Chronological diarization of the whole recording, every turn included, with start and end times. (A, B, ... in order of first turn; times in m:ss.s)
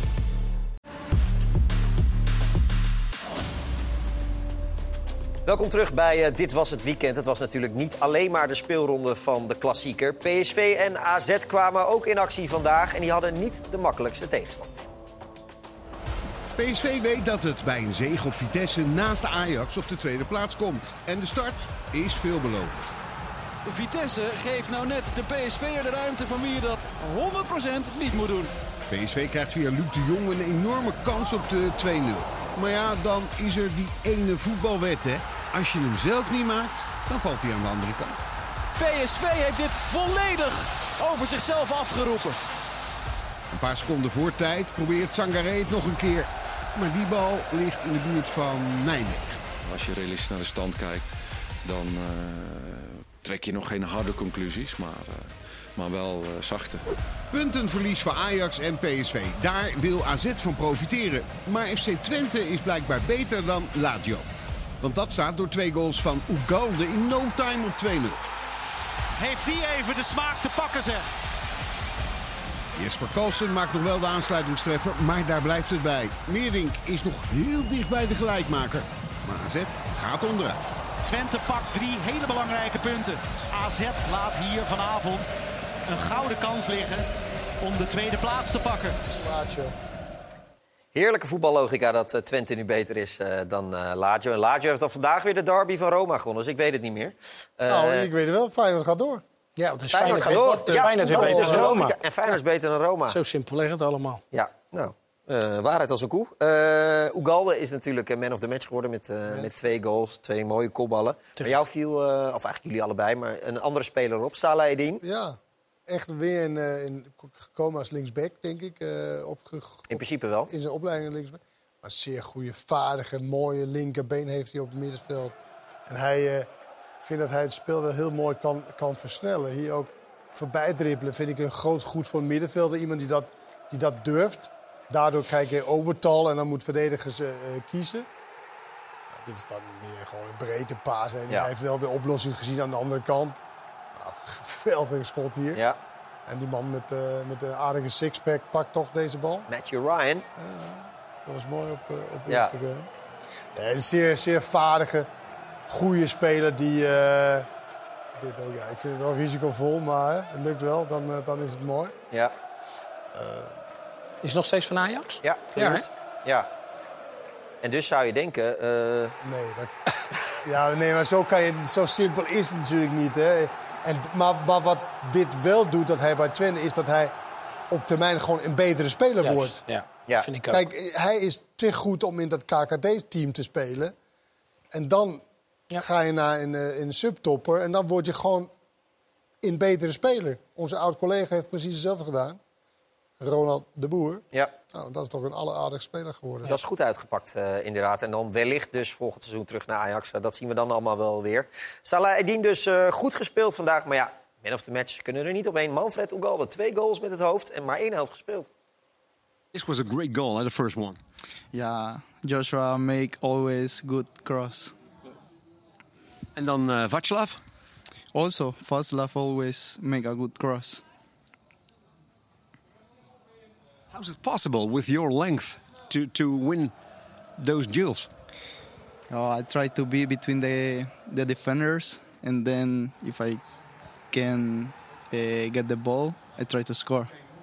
0:05.4-0:14.8 A
0:16.6-0:22.9 B
0:23.6-0:28.5 C
0:28.9-0:38.2 B
0:38.8-0:42.4 C
0:43.5-0:49.4 B
0:49.6-0:56.8 D
0:57.3-1:04.2 B
1:04.8-1:08.2 B
1:09.2-1:11.1 E
1:12.8-1:20.6 B
1:21.0-1:25.3 E
1:25.9-1:27.1 E
1:27.6-1:29.0 E
1:29.1-1:29.7 F
1:30.9-1:38.1 A
1:37.7-1:39.2 F
1:39.6-1:42.0 G
1:39.9-1:43.2 A
1:40.0-1:41.7 F
1:43.1-1:44.2 G
1:44.3-1:55.0 A
1:55.0-2:06.5 F
1:59.9-2:00.5 A
2:07.0-2:18.0 F
2:19.1-2:23.4 F
2:24.0-2:25.6 F
2:26.3-2:29.5 F
2:29.5-2:30.2 A
2:30.4-2:32.9 F
2:33.5-2:35.1 F
2:35.7-2:37.5 F
2:38.2-2:41.9 F
2:43.1-2:43.5 F
2:44.2-2:45.8 G
2:45.2-2:46.5 A
2:47.6-2:49.2 A
2:49.2-2:49.8 F
2:50.3-2:57.1 F
2:57.7-2:59.6 F
2:59.2-3:00.7 G
3:00.5-3:03.9 F
3:04.7-3:05.2 F
3:05.8-3:08.5 F
3:09.4-3:12.4 F
3:13.2-3:16.6 F
3:16.4-3:28.5 A
3:29.5-3:31.0 H
3:31.5-3:34.7 I
3:36.4-3:37.4 H
3:38.1-3:40.8 I
3:43.9-3:46.7 H
3:47.4-3:48.1 H
3:49.1-3:53.4 I
3:54.1-3:57.1 I